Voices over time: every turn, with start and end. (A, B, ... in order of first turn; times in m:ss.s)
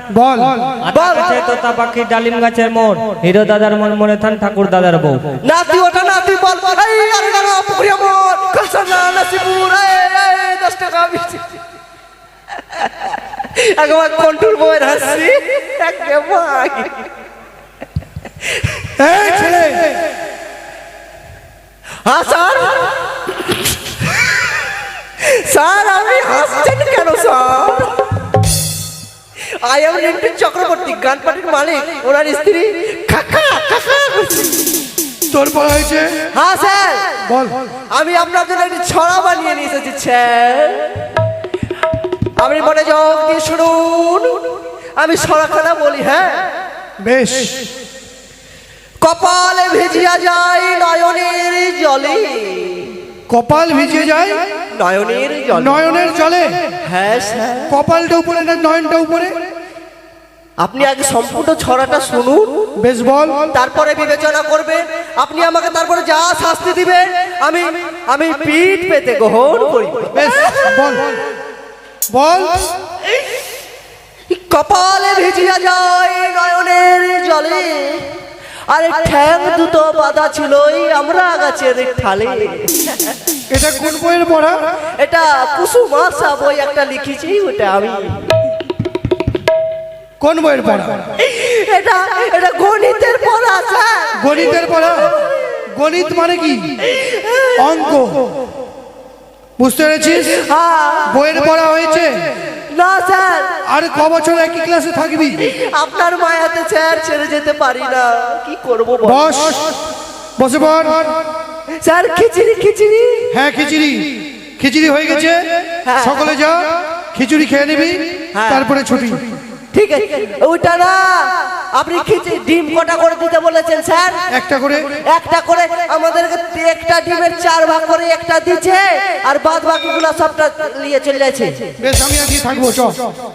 0:00.1-0:00.7 A
0:00.8-0:05.2 B
0:00.9-0:01.4 C
0:05.4-0:11.6 C
0:12.7-0:17.1 C
0:19.0-0:20.0 A
0:22.0-0:23.1 C
0:25.2-0:28.0 C
0:29.6-0:34.6 C
0:35.3-0:36.2 A
0:36.3-0:37.2 C
0:37.2-0:37.6 A
0:37.9-0:40.9 C
0:42.4-0:46.5 C
0:47.0-0:47.6 A
0:49.0-0:53.0 C
0:53.3-0:54.4 A
0:54.8-0:55.8 C
0:55.6-0:56.5 A
0:56.8-0:57.7 C
0:57.7-0:59.5 A
1:00.6-1:02.5 C
1:02.8-1:03.5 A
1:03.5-1:10.7 C
1:10.1-1:11.2 A
1:12.1-1:12.6 A
1:14.3-1:18.1 C
1:18.7-1:23.1 C
1:23.5-1:24.6 A
1:25.0-1:28.2 C
1:30.2-1:31.1 A
1:31.2-1:35.4 C
1:34.2-1:35.1 A
1:35.7-1:36.8 A
1:36.9-1:37.6 C
1:37.6-1:38.2 A
1:39.6-1:40.4 A
1:40.3-1:41.2 C
1:41.1-1:42.1 A
1:42.7-1:43.5 C
1:43.7-1:45.4 A
1:45.4-1:49.3 C
1:49.0-1:49.7 A
1:50.4-1:51.2 A
1:51.8-1:53.3 C
1:53.3-1:55.4 A
1:55.8-1:56.3 C
1:56.0-1:59.2 A
1:58.3-1:58.7 C
1:59.7-2:04.2 C
2:04.3-2:05.0 A
2:05.1-2:11.7 C
2:11.8-2:13.0 A